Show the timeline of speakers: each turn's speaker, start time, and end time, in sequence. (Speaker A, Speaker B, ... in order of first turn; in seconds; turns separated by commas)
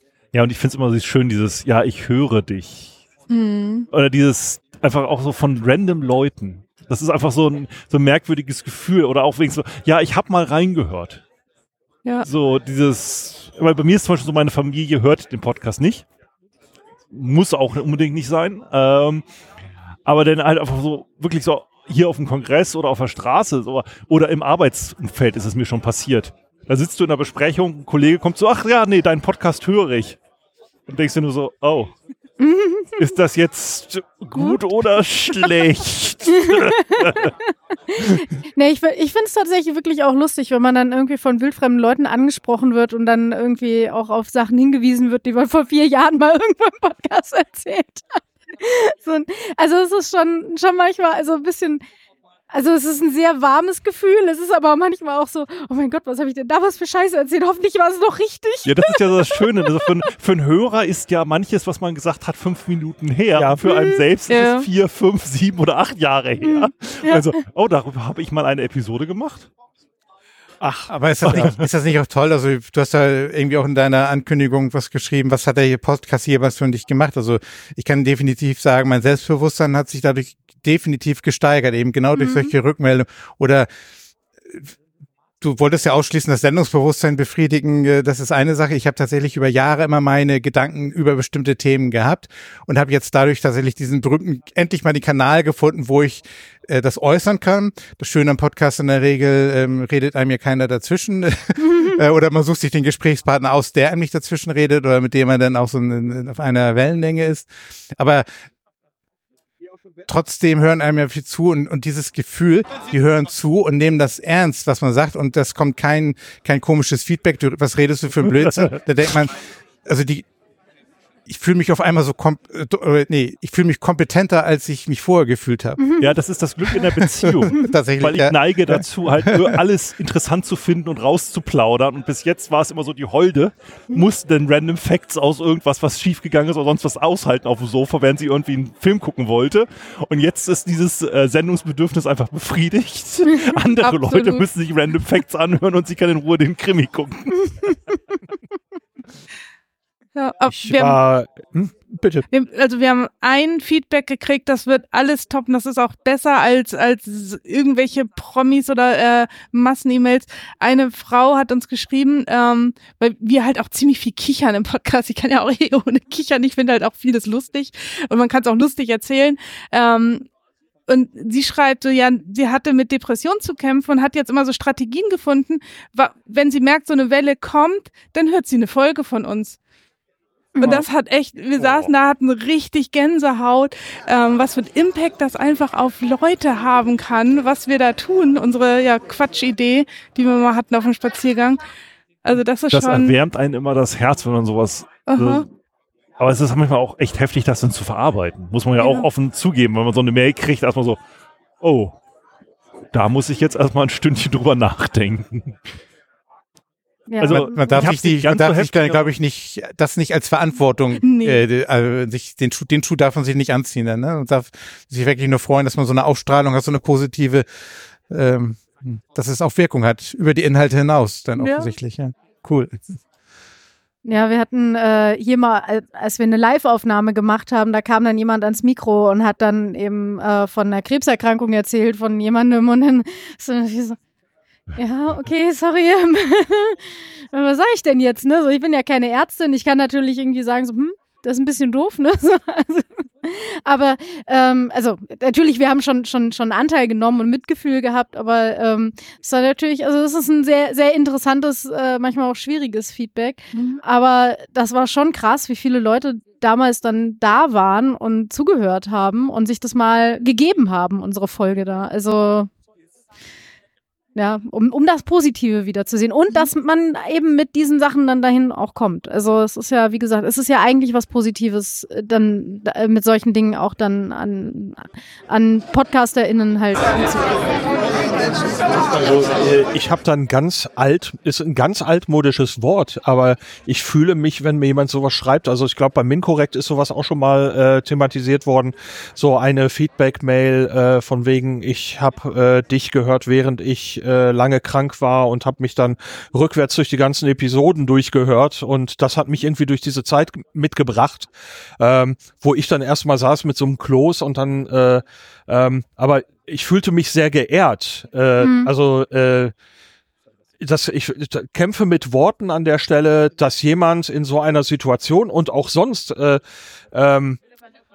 Speaker A: 0.3-3.0, Speaker B: 3.3-3.9, Speaker A: 3.9-11.2, Speaker A: 12.2-16.0, Speaker A: 17.1-19.2, Speaker A: 20.1-30.2, Speaker A: 30.9-31.9, Speaker C: 32.4-33.0, Speaker A: 33.0-37.3, Speaker C: 36.3-37.3, Speaker C: 38.0-51.8, Speaker C: 52.5-59.4, Speaker A: 58.6-69.5, Speaker D: 63.4-63.6, Speaker B: 63.7-64.7, Speaker D: 70.6-71.5, Speaker E: 70.9-83.7, Speaker A: 71.2-71.6, Speaker B: 82.2-82.5, Speaker E: 85.4-108.2, Speaker E: 110.1-120.3, Speaker E: 121.2-126.0, Speaker A: 126.0-147.7, Speaker E: 127.0-129.6, Speaker B: 143.8-144.4, Speaker B: 150.1-151.0, Speaker D: 150.5-152.3, Speaker B: 152.3-170.3, Speaker B: 170.9-179.6, Speaker C: 180.6-180.8, Speaker B: 180.6-191.6, Speaker B: 192.2-193.2, Speaker A: 192.7-195.5, Speaker B: 195.1-195.5, Speaker A: 196.2-201.0, Speaker B: 198.8-199.1, Speaker A: 201.6-201.9, Speaker A: 202.9-205.5, Speaker C: 207.1-207.7, Speaker A: 207.2-209.1, Speaker E: 207.3-217.4, Speaker B: 211.0-211.4, Speaker E: 218.1-222.8, Speaker C: 224.0-234.0, Speaker C: 234.8-262.5, Speaker C: 264.1-277.4, Speaker D: 279.0-309.5, Speaker C: 308.4-308.7, Speaker D: 310.6-316.4, Speaker D: 316.9-317.4